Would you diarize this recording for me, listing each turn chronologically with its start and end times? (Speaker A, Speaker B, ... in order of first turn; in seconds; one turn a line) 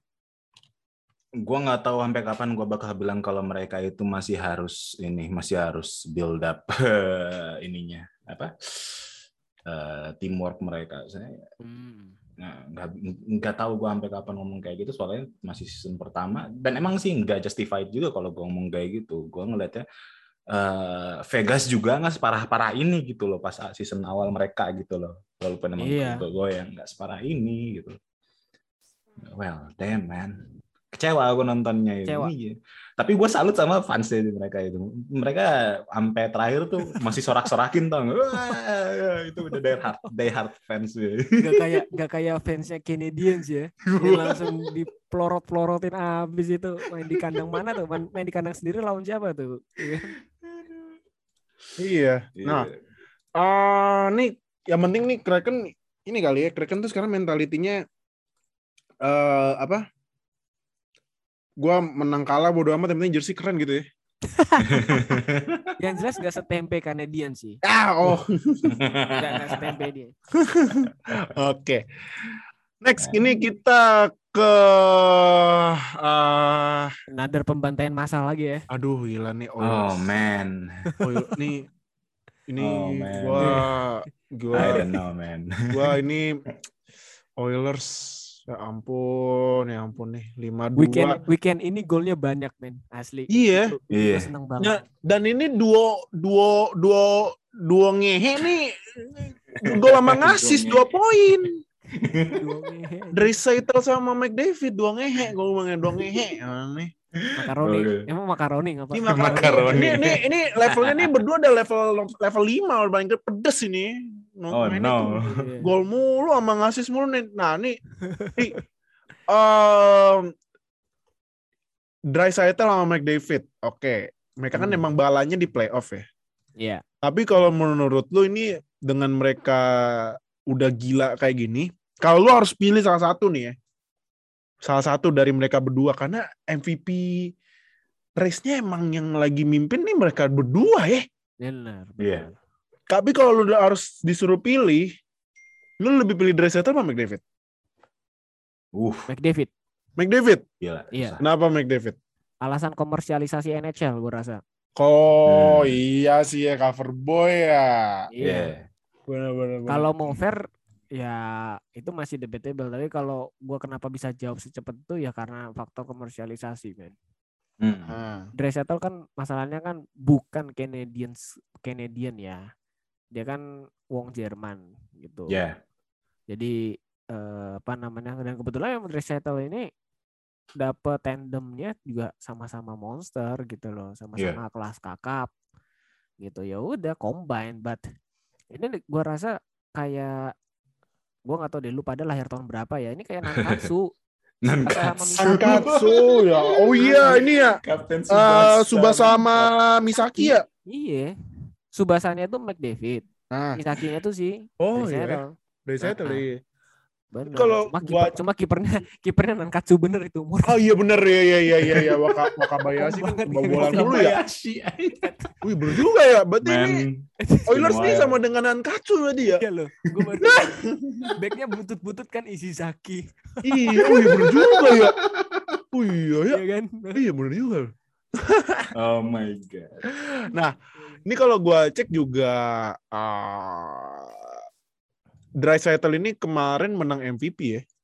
Speaker A: 1.4-9.1
Speaker A: 9.7-11.4
Speaker B: 11.6-12.2
Speaker A: 12.4-19.8
Speaker A: 20.5-27.9
Speaker B: 25.8-26.2
Speaker A: 29.2-30.4
Speaker A: 30.9-41.7
Speaker B: 32.0-32.3
Speaker B: 39.6-40.1
Speaker B: 41.4-50.1
Speaker A: 43.9-44.7
Speaker C: 51.8-52.7
Speaker A: 52.4-52.8
Speaker C: 53.4-57.8
Speaker C: 59.0-59.8
Speaker C: 61.6-63.8
Speaker B: 64.3-65.2
Speaker A: 64.6-65.7
Speaker B: 65.8-67.6
Speaker C: 67.6-68.8
Speaker A: 68.7-69.8
Speaker B: 69.2-70.1
Speaker C: 70.4-71.8
Speaker C: 72.8-76.9
Speaker A: 73.0-73.3
Speaker B: 77.1-78.6
Speaker C: 78.7-80.1
Speaker A: 79.6-80.9
Speaker C: 81.0-81.7
Speaker C: 82.5-84.9
Speaker A: 82.6-83.7
Speaker B: 83.4-83.6
Speaker B: 84.5-84.9
Speaker A: 84.5-86.0
Speaker C: 85.7-86.4
Speaker C: 87.4-91.2
Speaker B: 90.8-94.8
Speaker C: 93.3-93.7
Speaker A: 93.9-94.3
Speaker C: 94.6-101.6
Speaker A: 99.5-100.9
Speaker A: 102.0-102.4
Speaker B: 102.2-103.3
Speaker C: 103.1-106.9
Speaker A: 107.2-108.1
Speaker B: 107.4-110.0
Speaker C: 108.9-117.8
Speaker A: 109.1-111.1
Speaker A: 114.5-115.3
Speaker B: 115.2-115.7
Speaker B: 118.0-118.6
Speaker C: 119.3-120.3
Speaker C: 122.1-126.0
Speaker B: 124.5-124.8
Speaker C: 127.0-133.5
Speaker C: 134.6-137.3
Speaker C: 138.2-141.0
Speaker B: 141.4-142.4
Speaker A: 142.0-142.2
Speaker C: 142.9-144.9
Speaker C: 145.8-147.2
Speaker A: 148.7-149.1
Speaker B: 149.1-149.5
Speaker C: 150.0-150.4
Speaker A: 150.6-151.2
Speaker B: 150.9-151.2
Speaker C: 151.2-152.0
Speaker B: 152.4-154.4
Speaker C: 154.8-158.1
Speaker A: 155.3-155.8
Speaker B: 158.1-158.5
Speaker A: 158.2-158.7
Speaker C: 159.1-159.8
Speaker B: 159.7-167.0
Speaker A: 167.6-167.9
Speaker C: 167.8-168.3
Speaker B: 168.4-172.4
Speaker B: 173.1-175.4
Speaker A: 175.3-175.6
Speaker B: 176.3-176.6
Speaker B: 177.1-179.7
Speaker B: 180.6-185.3
Speaker B: 186.2-187.8
Speaker B: 188.5-190.3
Speaker B: 191.2-193.9
Speaker A: 193.4-193.7
Speaker A: 194.4-199.5
Speaker B: 194.6-195.7
Speaker C: 195.2-200.4
Speaker B: 196.8-197.2
Speaker B: 200.2-201.1
Speaker B: 201.7-206.2
Speaker C: 203.3-203.6
Speaker C: 204.6-206.4
Speaker B: 207.1-210.6
Speaker C: 207.3-208.2
Speaker C: 210.5-214.2
Speaker A: 211.7-212.0
Speaker B: 212.6-214.2
Speaker A: 213.5-215.0
Speaker B: 215.0-215.3
Speaker C: 215.4-216.8
Speaker A: 216.4-218.2
Speaker B: 217.2-218.0
Speaker C: 217.5-219.4
Speaker B: 219.4-224.1
Speaker C: 220.2-221.1
Speaker C: 223.4-225.0
Speaker A: 223.8-225.6
Speaker C: 225.7-226.4
Speaker B: 226.3-227.0
Speaker C: 226.9-228.7
Speaker A: 228.7-229.9
Speaker C: 229.9-234.4
Speaker C: 235.4-237.6